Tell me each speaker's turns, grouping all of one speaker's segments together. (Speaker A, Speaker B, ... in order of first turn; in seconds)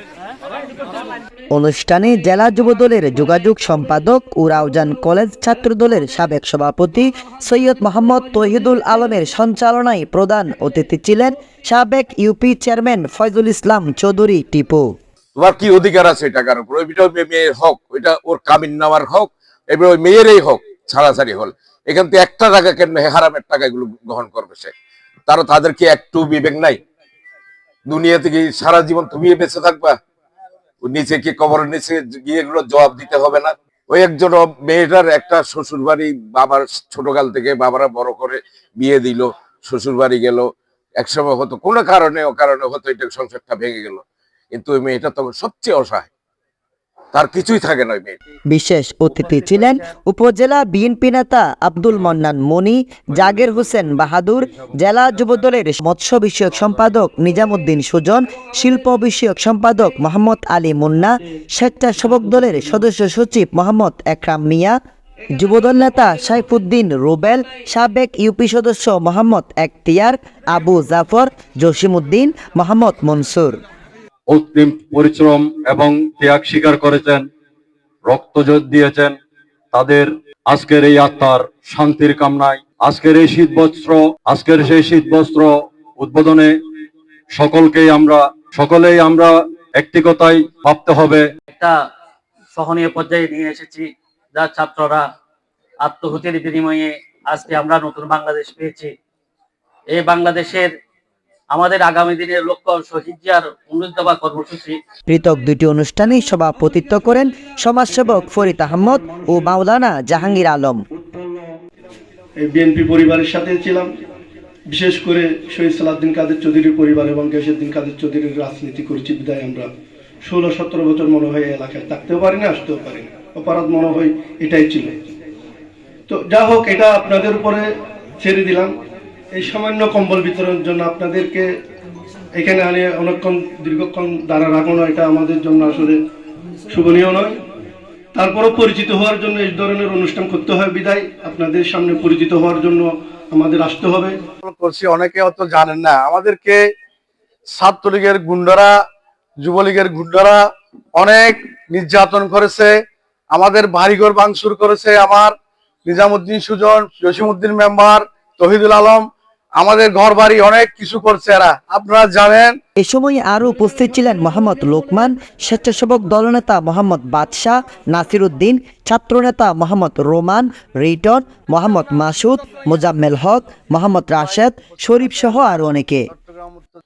Speaker A: 1.5-14.9, 48.5-64.8, 65.3-73.6, 105.1-110.8, 162.8-176.1
Speaker B: 15.3-24.7, 25.3-26.8, 27.9-29.9, 30.8-40.5, 41.0-46.1, 47.1-48.2
Speaker C: 74.3-77.2, 78.0-79.1, 79.7-86.5, 87.3-91.2
Speaker D: 92.5-95.0, 95.8-98.9, 99.9-100.7, 101.5-104.8
Speaker E: 112.4-113.9, 114.7-119.7, 120.2-124.9, 126.1-127.7, 128.2-128.7, 129.3-131.5, 132.3-136.0, 136.7-137.4, 138.1-144.2
Speaker F: 144.4-146.6, 147.6-148.7, 149.4-150.4, 150.9-152.7, 153.3-155.3, 155.8-159.0, 159.6-162.6, 176.2-176.7